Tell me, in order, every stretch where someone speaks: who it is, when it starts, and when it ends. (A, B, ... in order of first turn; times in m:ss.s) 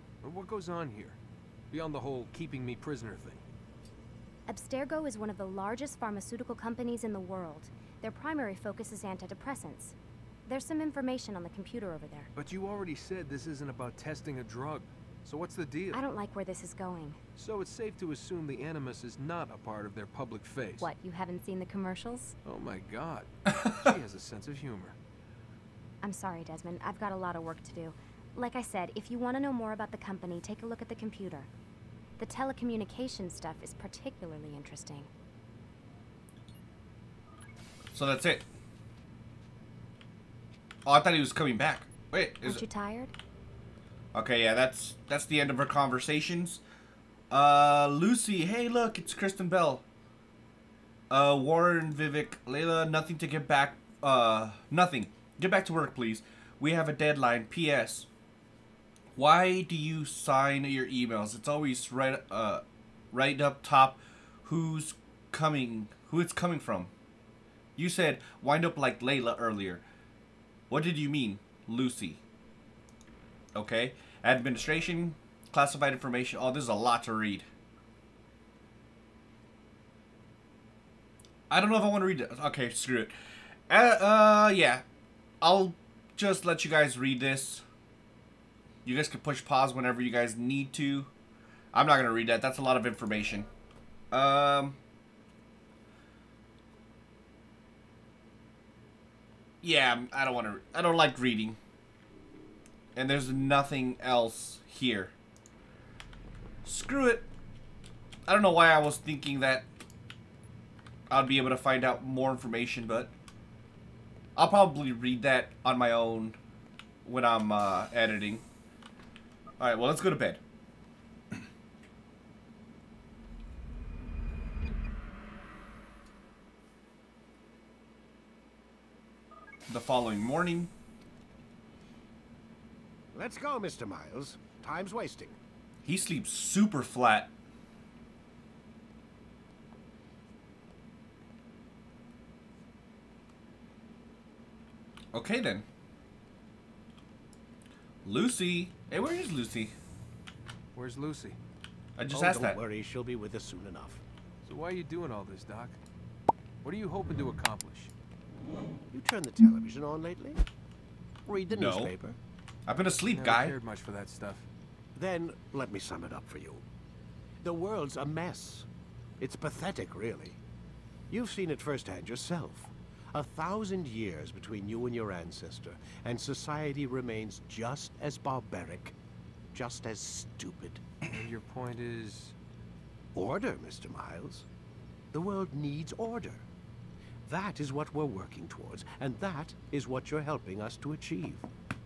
0:00.2-0:01.2 A
0:01.7-0:03.4 A
0:04.5-0:10.0 B
0:10.5-0:12.3 B
0:12.4-0:16.0 A
0:15.9-0:17.2 B
0:17.4-0:20.9 A
0:20.8-0:22.4 B
0:22.4-0:25.0 A
0:26.0-0:31.5 B
0:32.2-0:35.1 B
0:37.9-0:38.4 C
0:40.8-0:42.6 C
0:42.4-0:43.1 B
0:44.1-0:46.6 C
0:47.3-0:49.8 C
0:51.1-0:58.1 C
0:59.2-1:06.9 C
1:07.8-1:09.8 C
1:10.7-1:12.2 C
1:13.5-1:17.5 C
1:21.5-1:23.2 C
1:23.7-1:24.8 C
1:25.4-1:27.6 C
1:28.8-1:31.1 C
1:31.7-1:33.5 C
1:34.1-1:34.8 C
1:39.6-1:41.6 C
1:43.0-1:45.1 C
1:46.6-1:47.3 C
1:48.3-1:49.7 C
1:51.1-1:53.1 C
1:54.4-1:56.4 C
1:57.0-1:58.4 C
1:59.6-2:00.4 C
2:09.7-2:10.7 C
2:13.1-2:15.4 D
2:15.8-2:17.3 C
2:25.1-2:25.7 C
2:28.0-2:29.7 C
2:30.7-2:31.4 A
2:32.0-2:32.6 C
2:32.1-2:34.0 D
2:34.4-2:35.8 A
2:36.6-2:37.9 A
2:38.9-2:40.4 D
2:41.3-2:42.2 D
2:41.5-2:42.0 C
2:42.7-2:43.6 C
2:43.1-2:44.5 A
2:45.0-2:46.6 D
2:47.4-2:48.7 D
2:49.2-2:50.4 D
2:51.1-2:59.0 D
2:59.5-3:00.8 D
3:01.0-3:02.4 A
3:03.2-3:04.5 D
3:05.1-3:06.5 D
3:07.2-3:11.5 D